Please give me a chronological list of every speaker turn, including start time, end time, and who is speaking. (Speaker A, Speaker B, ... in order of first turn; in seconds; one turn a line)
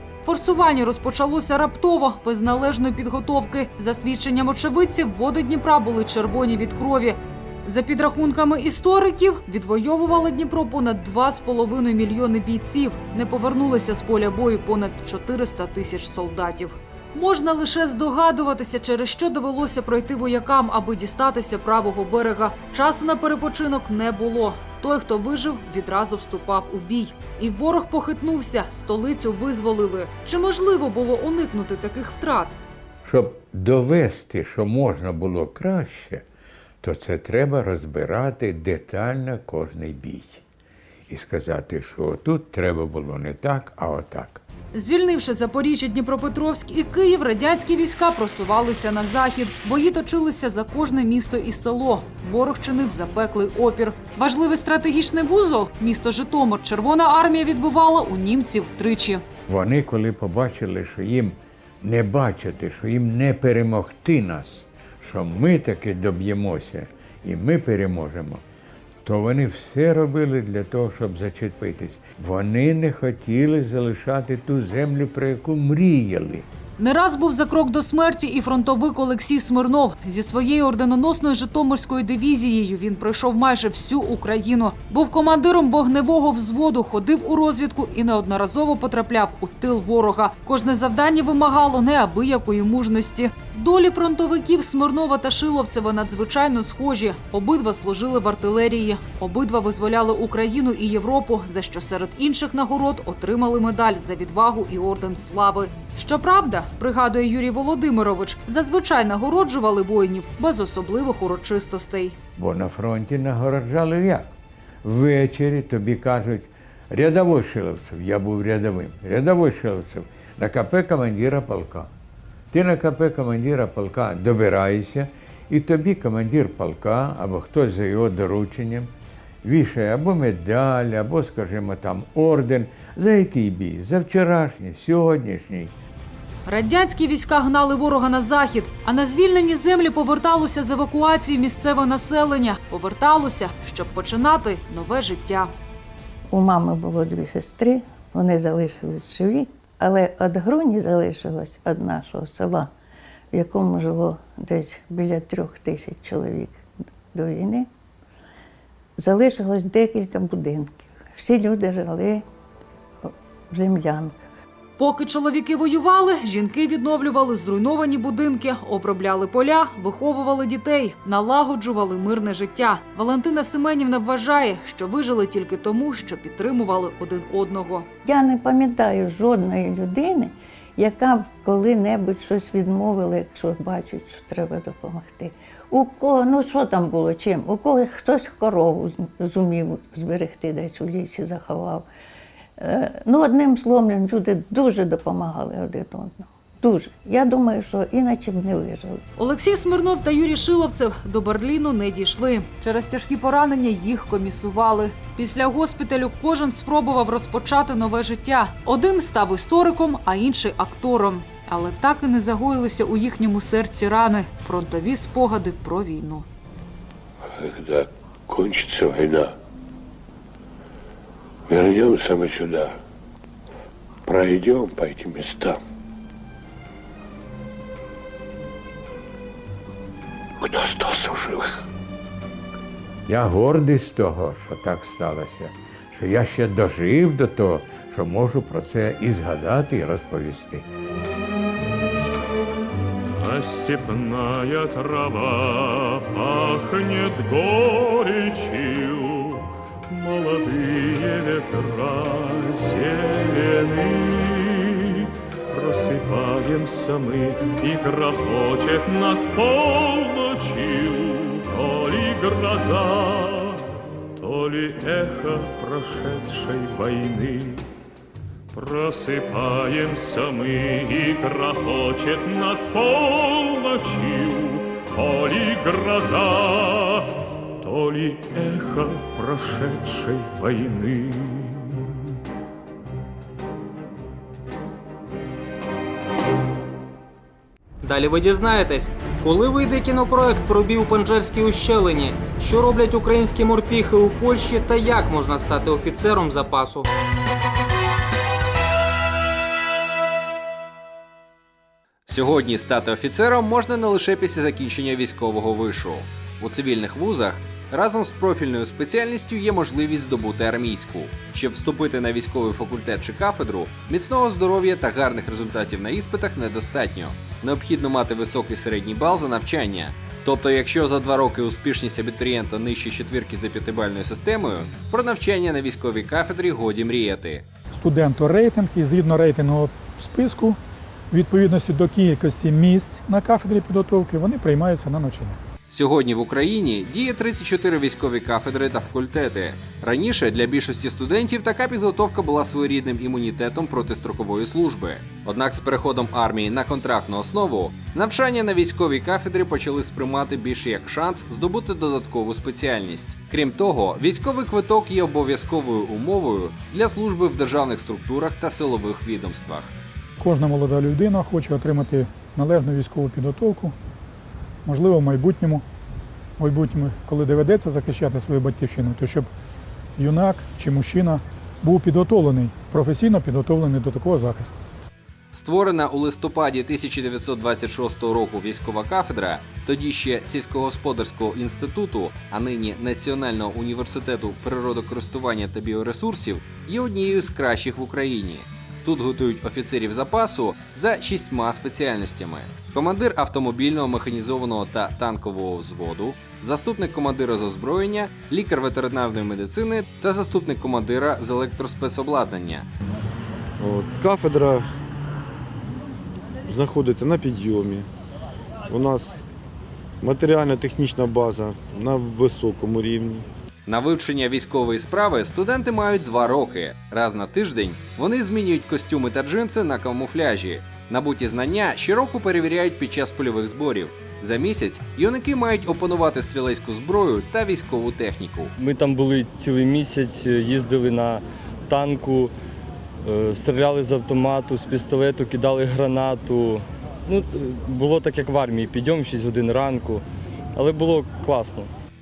Speaker A: 0.2-32.6
Speaker B: 33.0-36.2
Speaker B: 36.8-40.4
Speaker B: 41.1-44.4
Speaker A: 44.7-59.2
Speaker B: 59.5-68.4
Speaker B: 69.0-76.5
Speaker A: 76.8-112.2
Speaker B: 112.4-114.3
Speaker B: 114.8-121.9
Speaker B: 122.5-128.9
Speaker B: 129.4-135.7
Speaker A: 136.5-145.5
Speaker C: 146.3-152.7
Speaker C: 153.3-157.7
Speaker C: 159.0-162.2
Speaker C: 163.5-164.2
Speaker A: 164.8-177.9
Speaker C: 178.1-191.9
Speaker C: 192.6-199.0
Speaker A: 199.2-216.3
Speaker D: 217.3-219.3
Speaker D: 221.5-222.8
Speaker D: 224.1-225.6
Speaker D: 230.4-231.6
Speaker B: 233.1-240.7
Speaker E: 243.2-267.7
Speaker E: 268.5-282.0
Speaker F: 287.8-296.9
Speaker G: 302.1-327.4
Speaker H: 327.7-330.6
Speaker H: 331.1-335.4
Speaker G: 335.7-359.7
Speaker H: 360.2-363.8
Speaker H: 364.6-365.6
Speaker H: 366.4-369.3
Speaker H: 370.0-374.5
Speaker G: 375.3-402.7
Speaker I: 403.6-404.7
Speaker I: 406.5-407.9
Speaker I: 408.7-409.2
Speaker I: 410.0-413.3
Speaker G: 413.7-428.5
Speaker J: 428.6-432.3
Speaker J: 433.0-440.0
Speaker J: 440.6-441.7